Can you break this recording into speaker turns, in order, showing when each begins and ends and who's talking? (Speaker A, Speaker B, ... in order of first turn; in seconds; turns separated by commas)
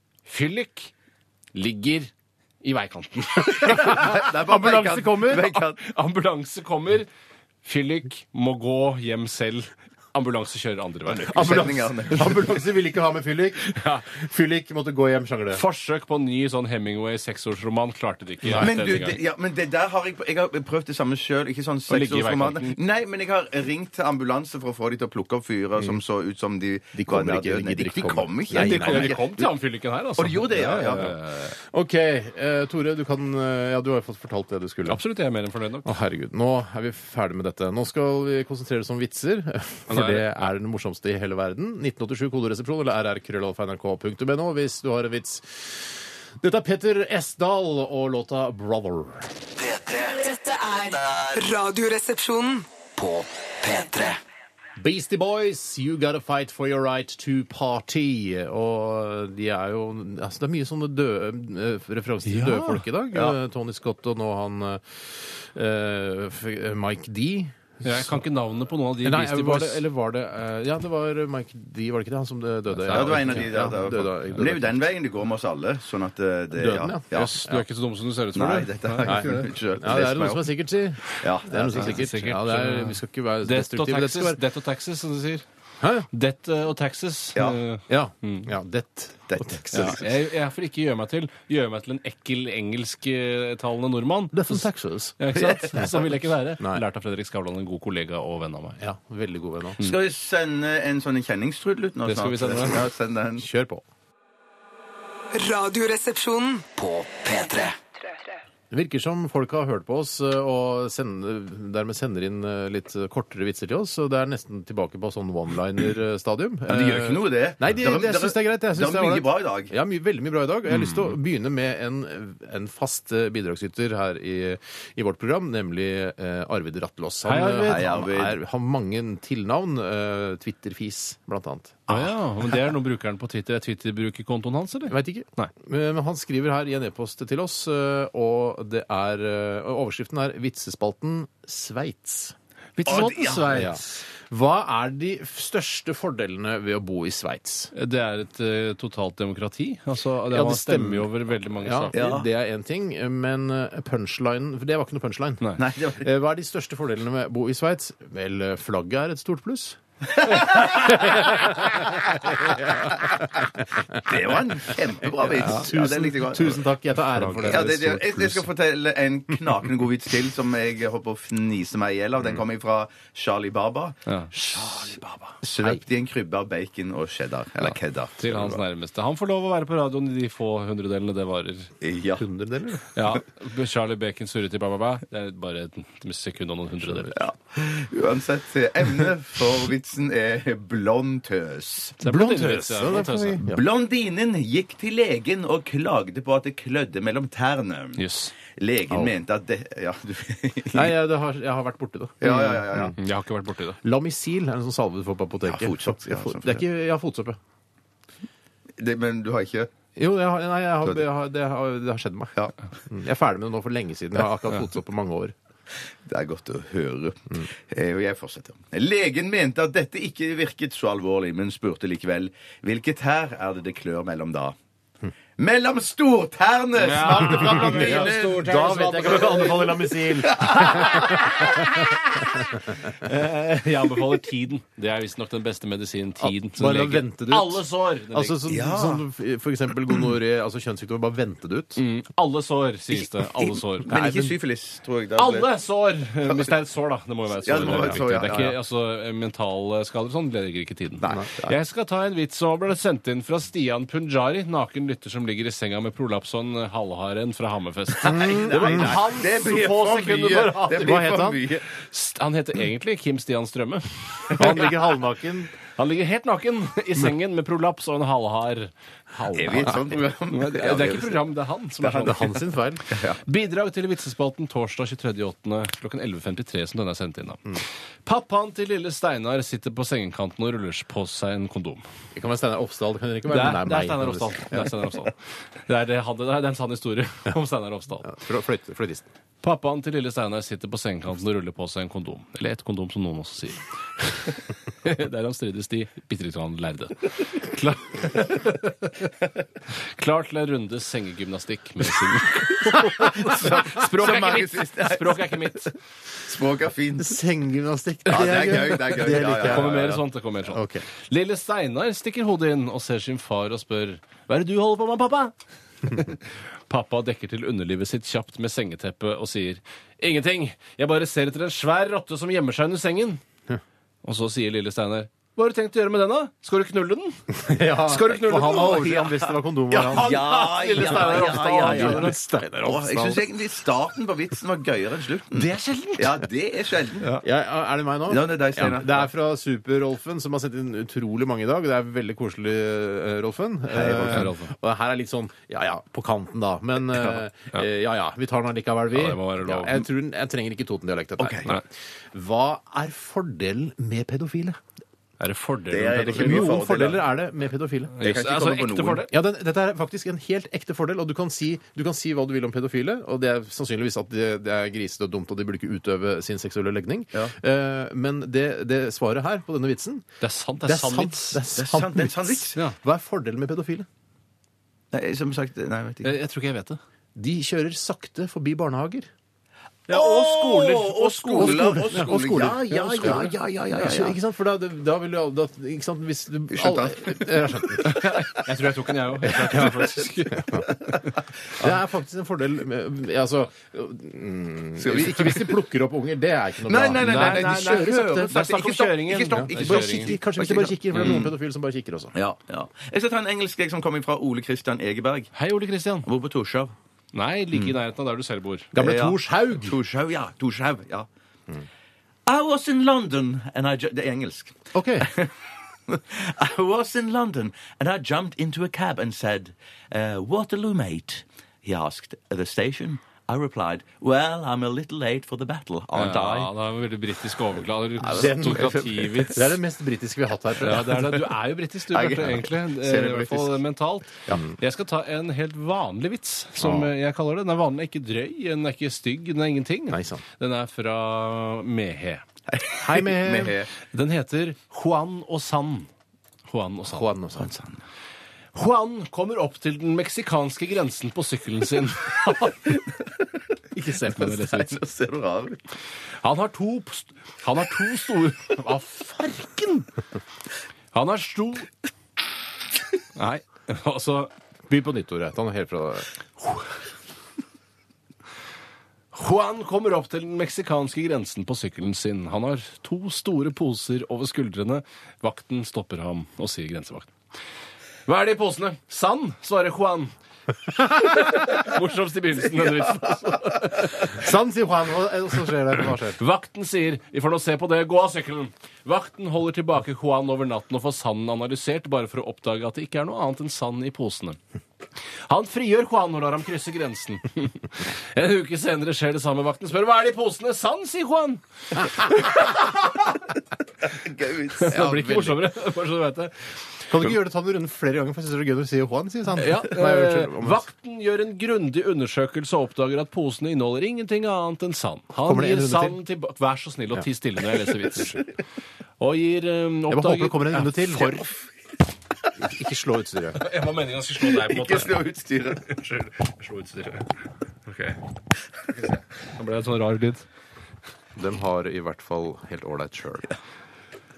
Speaker A: 0.3-0.9, Speaker A: 1.6-2.1, Speaker A: 2.6-4.0, Speaker B: 3.5-5.8, Speaker C: 3.6-5.6, Speaker A: 5.8-7.1, Speaker A: 7.6-11.7, Speaker B: 11.2-12.6, Speaker C: 11.3-15.6, Speaker A: 13.6-14.1, Speaker A: 15.5-19.2, Speaker C: 18.4-18.7, Speaker B: 18.6-29.5, Speaker A: 21.9-22.8, Speaker C: 26.9-29.2, Speaker A: 28.5-31.6, Speaker B: 30.2-31.2, Speaker C: 31.6-35.0, Speaker A: 34.9-36.0, Speaker C: 35.9-49.3, Speaker A: 39.9-40.3, Speaker D: 49.6-50.2, Speaker E: 50.1-52.7, Speaker D: 53.0-54.2, Speaker C: 54.8-68.2, Speaker A: 62.3-62.8, Speaker A: 67.8-69.8, Speaker C: 69.0-74.8, Speaker A: 72.8-73.8, Speaker B: 72.9-77.6, Speaker C: 76.5-77.0, Speaker A: 77.1-79.5, Speaker B: 78.3-80.5, Speaker C: 79.0-84.4, Speaker B: 81.2-82.0, Speaker A: 81.7-85.5, Speaker C: 85.8-86.1, Speaker A: 86.1-88.5, Speaker C: 87.9-90.0, Speaker B: 89.3-90.0, Speaker A: 89.7-94.7, Speaker C: 94.3-95.2, Speaker A: 95.2-98.8, Speaker B: 95.3-95.7, Speaker C: 96.6-96.8, Speaker C: 98.8-99.8, Speaker B: 99.8-103.5, Speaker A: 102.0-102.9, Speaker C: 103.4-103.8, Speaker E: 105.3-106.7, Speaker D: 106.8-107.8, Speaker C: 108.7-131.8, Speaker B: 116.7-119.7, Speaker A: 127.2-127.9, Speaker B: 127.6-128.4, Speaker A: 131.9-135.5, Speaker C: 134.9-142.3, Speaker A: 142.8-144.0, Speaker B: 142.9-143.7, Speaker C: 143.5-147.7, Speaker A: 147.7-152.1, Speaker C: 150.3-164.1, Speaker B: 151.9-152.3, Speaker B: 155.6-156.1, Speaker B: 160.2-161.4, Speaker B: 164.0-166.6, Speaker C: 165.1-168.5, Speaker A: 167.2-167.7, Speaker B: 167.4-174.0, Speaker A: 174.1-175.3, Speaker B: 174.6-174.8, Speaker B: 175.4-178.6, Speaker A: 178.2-181.7, Speaker B: 181.8-182.3, Speaker C: 182.2-182.9, Speaker A: 182.9-187.2, Speaker B: 187.1-192.0, Speaker A: 192.0-193.4, Speaker C: 192.0-193.6, Speaker B: 193.5-200.9, Speaker A: 198.0-198.3, Speaker C: 200.7-202.9, Speaker B: 202.2-203.0, Speaker A: 202.3-203.8, Speaker C: 203.8-207.4, Speaker B: 205.5-206.6, Speaker B: 208.8-209.7, Speaker C: 210.0-215.3, Speaker B: 216.1-224.6, Speaker B: 225.4-231.5, Speaker A: 226.8-238.4, Speaker C: 227.3-231.9, Speaker C: 236.2-241.8, Speaker B: 238.5-239.1, Speaker A: 241.8-243.9, Speaker B: 243.0-245.6, Speaker C: 243.9-244.4, Speaker A: 245.2-261.1, Speaker B: 247.4-248.6, Speaker C: 247.6-248.0, Speaker C: 251.0-251.3, Speaker B: 251.1-251.6, Speaker B: 258.0-261.6, Speaker C: 258.0-259.0, Speaker C: 260.8-261.6, Speaker A: 261.8-264.8, Speaker C: 264.4-265.5, Speaker A: 265.8-268.7, Speaker C: 269.1-269.8, Speaker A: 269.3-272.4, Speaker B: 269.3-271.3, Speaker B: 271.8-272.4, Speaker C: 272.0-272.8, Speaker B: 272.9-273.2, Speaker A: 273.2-281.9, Speaker C: 282.2-284.7, Speaker A: 283.3-288.1, Speaker C: 288.0-289.1, Speaker A: 289.4-298.9, Speaker A: 299.8-305.7, Speaker B: 303.1-305.4, Speaker B: 306.2-307.2, Speaker C: 307.0-309.8, Speaker B: 308.1-310.0, Speaker A: 309.4-315.4, Speaker C: 310.5-310.8, Speaker A: 315.9-323.2, Speaker A: 324.0-329.1, Speaker C: 327.3-330.2, Speaker B: 328.5-337.2, Speaker A: 329.9-332.2, Speaker C: 330.8-333.2, Speaker A: 335.3-336.2, Speaker C: 337.2-354.6, Speaker B: 338.1-339.1, Speaker B: 343.7-344.3, Speaker A: 344.1-344.5, Speaker A: 348.9-349.9, Speaker B: 351.2-351.5, Speaker A: 355.2-356.6, Speaker B: 355.7-357.1, Speaker C: 355.9-358.0, Speaker A: 357.9-359.1, Speaker B: 358.0-359.1, Speaker C: 359.1-370.1, Speaker A: 370.2-371.4, Speaker C: 370.6-373.9, Speaker B: 371.6-372.6, Speaker B: 374.9-376.2, Speaker A: 376.0-376.8, Speaker C: 377.2-379.1, Speaker A: 379.9-382.1, Speaker B: 379.9-384.2, Speaker C: 381.4-388.0, Speaker A: 383.0-383.3, Speaker B: 386.5-387.9, Speaker A: 387.8-390.7, Speaker C: 389.2-390.7, Speaker C: 391.6-398.3, Speaker B: 394.8-395.6, Speaker B: 396.6-401.3, Speaker A: 397.0-400.1, Speaker C: 399.3-402.1, Speaker B: 402.1-405.3, Speaker A: 405.3-406.1, Speaker B: 406.1-406.7, Speaker A: 407.1-408.7, Speaker C: 408.7-409.8, Speaker B: 408.8-411.1, Speaker B: 412.3-415.3, Speaker C: 414.7-415.1, Speaker B: 415.9-426.5, Speaker A: 425.9-429.5, Speaker B: 428.0-429.4, Speaker C: 428.0-431.0, Speaker A: 430.6-442.2, Speaker B: 430.9-431.2, Speaker B: 431.9-433.6, Speaker C: 436.6-436.9, Speaker C: 439.9-440.2, Speaker B: 442.5-443.7, Speaker C: 442.8-443.6, Speaker A: 443.8-445.9, Speaker A: 446.5-447.1, Speaker C: 446.9-447.5, Speaker B: 447.4-447.8, Speaker A: 448.5-452.8, Speaker A: 453.7-454.8, Speaker B: 454.1-455.6, Speaker A: 456.2-459.9, Speaker A: 460.9-461.7, Speaker A: 463.1-464.3, Speaker C: 464.7-466.1, Speaker A: 469.1-477.2, Speaker A: 478.1-480.1, Speaker A: 480.8-484.2, Speaker C: 484.1-486.2, Speaker A: 486.2-494.4, Speaker A: 495.3-503.2, Speaker B: 503.9-505.2, Speaker A: 504.5-506.5, Speaker C: 504.8-505.3, Speaker C: 506.9-510.7, Speaker A: 509.4-518.2, Speaker C: 515.2-516.0, Speaker A: 519.0-520.9, Speaker C: 519.9-521.3, Speaker C: 522.4-523.4, Speaker A: 523.4-527.1, Speaker B: 524.4-525.7, Speaker A: 527.6-528.0, Speaker A: 528.7-530.3, Speaker C: 531.2-533.3